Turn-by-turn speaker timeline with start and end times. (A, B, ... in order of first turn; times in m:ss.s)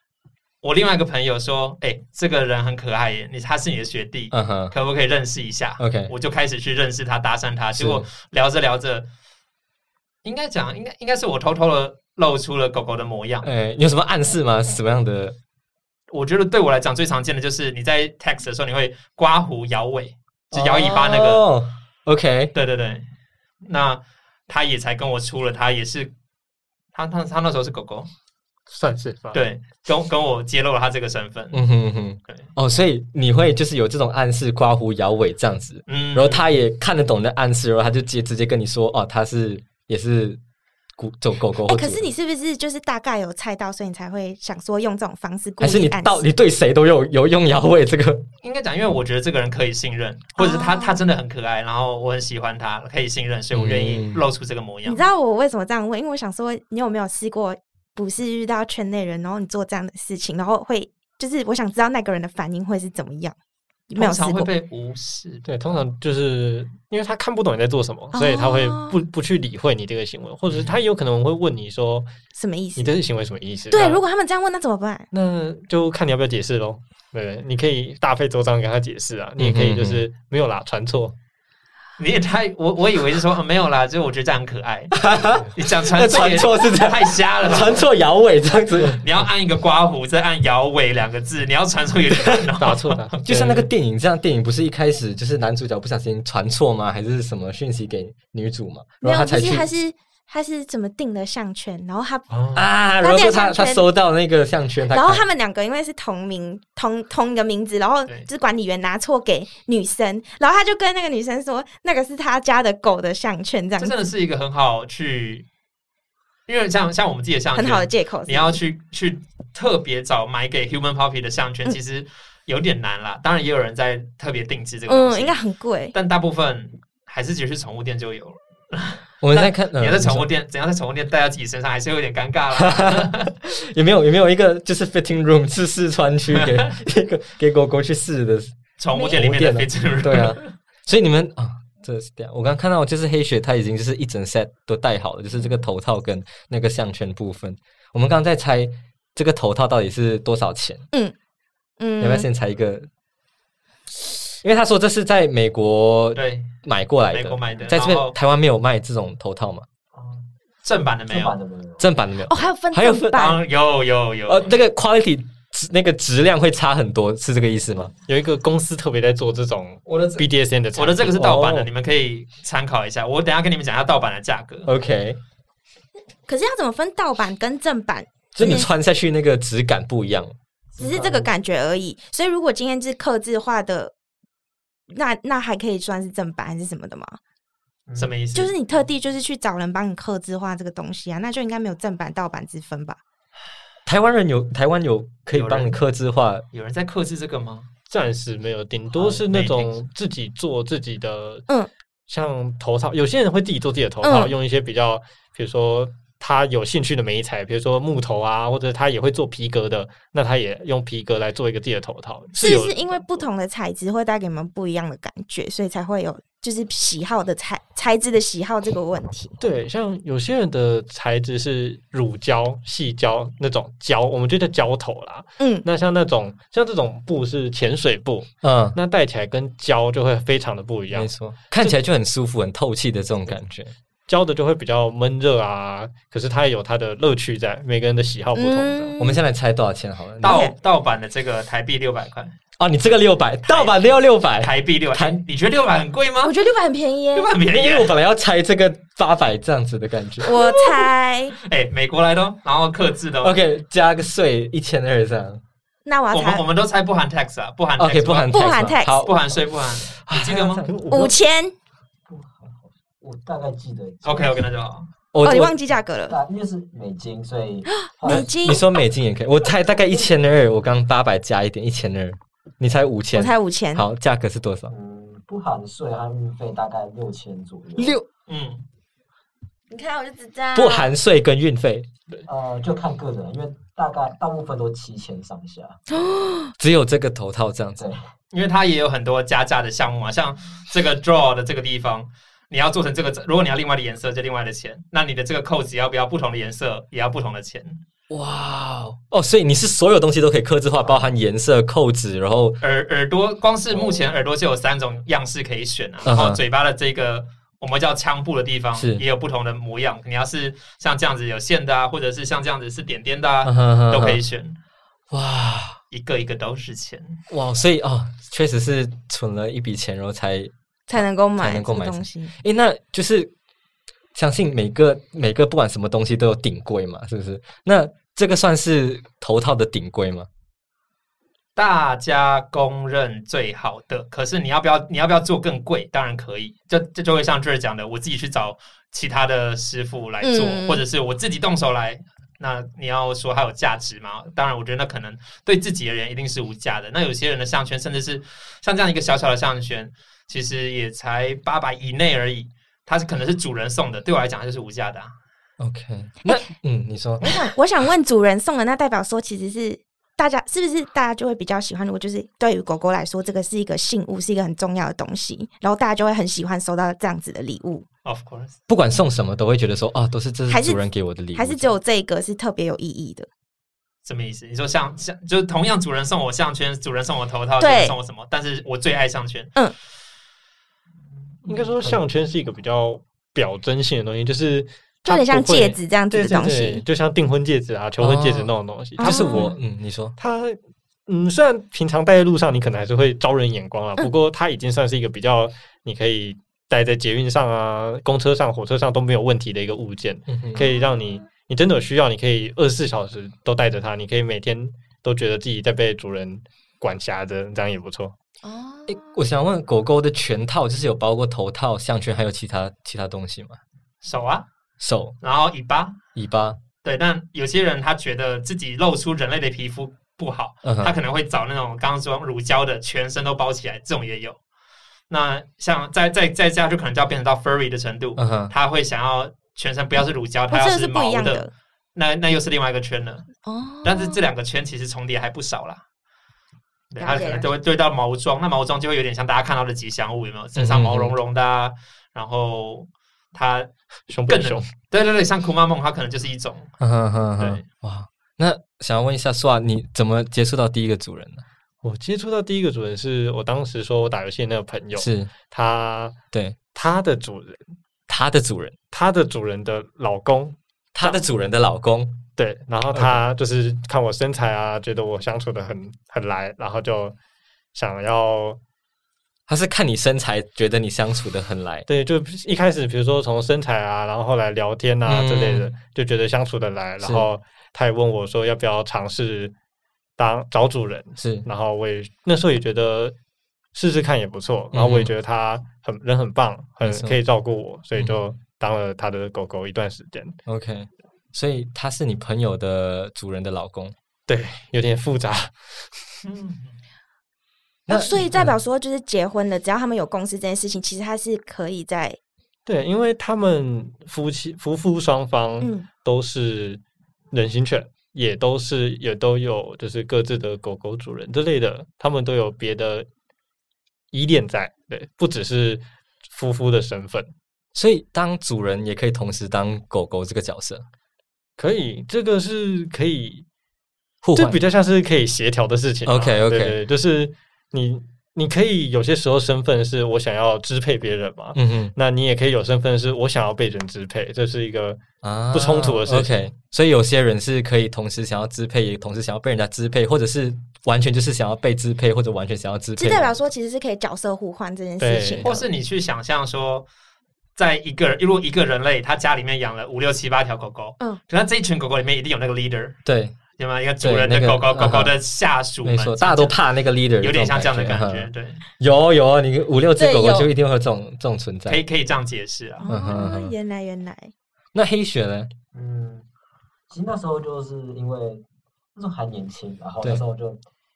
0:00.6-0:09.1 A
0:04.3-0:04.7 B
0:05.8-0:06.1 B
0:07.7-0:08.1 B
0:10.2-0:13.5 A
0:13.4-0:15.4 B
0:16.1-0:21.4 A
0:20.5-0:22.6 B
0:22.5-0:23.1 A
0:23.6-0:26.1 A
0:26.9-0:28.1 A
0:28.7-0:29.4 C
0:29.3-0:31.6 A
0:31.5-0:40.4 B
0:35.9-0:36.4 A
0:41.0-0:42.1 B
0:41.7-0:46.2 D
0:45.6-0:48.3 B
0:48.4-0:55.0 A
0:50.4-0:51.0 D
0:53.5-0:54.2 B
0:54.8-1:03.4 D
1:03.9-1:04.5 D
1:04.0-1:05.8 A
1:05.5-1:12.1 C
1:08.1-1:09.0 D
1:10.5-1:10.7 A
1:12.3-1:12.9 D
1:12.8-1:14.0 C
1:13.7-1:15.1 D
1:15.1-1:21.2 C
1:19.4-1:20.0 B
1:22.0-1:27.9 A
1:24.9-1:29.0 B
1:29.0-1:33.2 A
1:32.6-1:33.7 C
1:33.3-1:39.7 B
1:39.0-1:42.3 D
1:42.3-1:42.7 C
1:42.5-1:45.2 B
1:43.0-1:43.9 D
1:44.9-1:53.9 D
1:53.8-1:55.5 A
1:56.5-2:05.4 A
1:57.6-1:58.6 D
2:04.9-2:05.9 D
2:05.9-2:13.3 A
2:09.2-2:10.3 B
2:12.6-2:30.8 B
2:16.3-2:16.7 A
2:18.8-2:20.5 A
2:31.8-2:32.3 D
2:32.0-2:32.9 B
2:34.4-2:39.7 B
2:36.2-2:36.6 A
2:37.1-2:38.2 A
2:39.9-2:40.2 E
2:40.6-2:41.4 A
2:41.1-2:41.9 E
2:41.8-2:43.3 B
2:42.3-2:43.4 D
2:43.1-2:44.5 A
2:44.3-2:47.9 B
2:48.0-2:51.5 C
2:49.9-2:54.7 A
2:51.2-2:51.7 B
2:54.6-2:55.2 B
2:56.3-2:58.7 D
2:58.3-3:00.4 B
3:00.7-3:01.3 E
3:00.8-3:03.9 D
3:04.9-3:07.2 D
3:07.9-3:08.1 E
3:08.0-3:08.5 A
3:08.4-3:13.0 D
3:13.9-3:16.5 B
3:15.3-3:15.8 A
3:16.5-3:17.7 A
3:17.9-3:21.5 C
3:19.0-3:19.8 A
3:22.1-3:33.2 C
3:24.0-3:24.3 D
3:32.4-3:39.4 D
3:39.4-3:51.8 C
3:45.4-3:45.7 D
3:48.4-3:48.8 B
3:50.9-3:53.7 B
3:54.1-3:58.9 C
3:58.4-3:59.2 D
3:59.0-4:00.4 B
4:00.2-4:02.4 A
4:00.2-4:00.5 D
4:02.6-4:05.2 B
4:03.4-4:03.8 A
4:04.4-4:06.4 A
4:06.2-4:07.3 D
4:07.1-4:07.9 A
4:07.4-4:10.5 B
4:10.2-4:11.4 D
4:11.4-4:13.4 A
4:13.2-4:15.4 B
4:15.9-4:16.4 D
4:16.1-4:20.7 A
4:17.8-4:19.2 B
4:18.3-4:19.1 D
4:19.9-4:20.7 B
4:20.7-4:21.2 C
4:20.9-4:21.6 D
4:22.1-4:24.4 E
4:24.0-4:24.9 A
4:25.1-4:25.6 B
4:25.2-4:26.2 D
4:26.1-4:28.3 E
4:27.7-4:28.6 D
4:28.1-4:34.7 B
4:33.1-4:33.9 D
4:34.7-4:38.0 E
4:37.8-4:38.1 B
4:38.3-4:38.7 A
4:39.7-4:40.9 D
4:40.6-4:41.9 B
4:42.3-4:45.8 E
4:45.9-4:46.5 D
4:46.6-4:47.9 B
4:48.3-4:57.8 A
4:58.1-5:02.6 B
5:02.6-5:14.6 A
5:03.7-5:04.0 E
5:06.0-5:06.4 B
5:08.8-5:09.0 B
5:13.4-5:14.2 B
5:15.1-5:15.8 B
5:15.9-5:17.2 A
5:17.3-5:23.3 B
5:20.9-5:22.3 D
5:24.2-5:30.3 B
5:31.6-5:55.2 A
5:40.2-5:40.8 D
5:55.6-5:57.5 B
5:57.2-6:07.9 D
6:08.0-6:08.6 A
6:08.7-6:11.7 B
6:10.5-6:10.8 D
6:11.3-6:13.3 D
6:14.0-6:19.6 A
6:17.6-6:17.9 D
6:21.4-6:29.5 C
6:25.0-6:26.8 D
6:28.0-6:30.2 B
6:29.0-6:29.5 D
6:30.2-6:48.1 C
6:40.3-6:40.6 B
6:40.6-6:41.2 D
6:48.4-6:49.2 D
6:48.9-6:53.6 B
6:54.0-6:54.5 A
6:54.8-6:55.2 B
6:55.2-6:56.0 A
6:56.2-6:56.6 B
6:56.8-7:04.4 A
7:00.6-7:00.9 B
7:05.1-7:13.3 A
7:08.2-7:08.5 B
7:10.5-7:11.5 D
7:13.4-7:14.2 D
7:13.8-7:15.8 A
7:16.9-7:23.7 A
7:17.0-7:17.5 D
7:20.6-7:21.1 B
7:24.1-7:24.7 C
7:24.3-7:26.7 A
7:26.8-7:31.4 B
7:27.4-7:27.6 A
7:31.8-7:36.2 C
7:35.0-7:35.3 B
7:36.3-7:36.6 B
7:36.7-7:37.7 C
7:38.1-7:38.8 B
7:38.9-7:41.2 C
7:41.0-7:42.2 B
7:42.4-7:47.2 C
7:42.9-7:43.2 B
7:47.7-7:48.6 C
7:49.5-7:51.9 B
7:51.9-7:59.5 C
7:55.0-7:55.7 B
7:57.0-7:57.3 B
8:00.2-8:03.2 C
8:01.2-8:01.4 B
8:03.7-8:10.4 C
8:04.7-8:05.1 B
8:06.8-8:07.2 B
8:10.5-8:14.0 B
8:14.3-8:15.6 C
8:16.2-8:16.7 A
8:17.9-8:18.6 B
8:17.9-8:22.2 D
8:22.7-8:26.8 C
8:25.6-8:25.9 D
8:27.3-8:33.1 C
8:34.1-8:37.3 C
8:37.8-8:40.9 B
8:41.6-8:43.5 C
8:44.2-8:44.6 B
8:44.4-8:55.0 C
8:46.0-8:46.8 B
8:51.6-8:51.9 B
8:55.2-9:03.4 B
8:55.5-8:56.5 C
9:03.0-9:05.5 D
9:05.0-9:05.5 C
9:05.4-9:06.9 A
9:07.6-9:13.0 A
9:13.1-9:13.4 B
9:13.6-9:16.6 A
9:14.0-9:15.1 B
9:15.8-9:21.8 B
9:17.2-9:18.6 A
9:20.0-9:20.5 D
9:21.7-9:22.9 A
9:22.8-9:24.3 D
9:22.9-9:23.5 B
9:24.7-9:25.5 B
9:25.7-9:26.3 E
9:26.9-9:28.4 E
9:29.0-9:30.6 E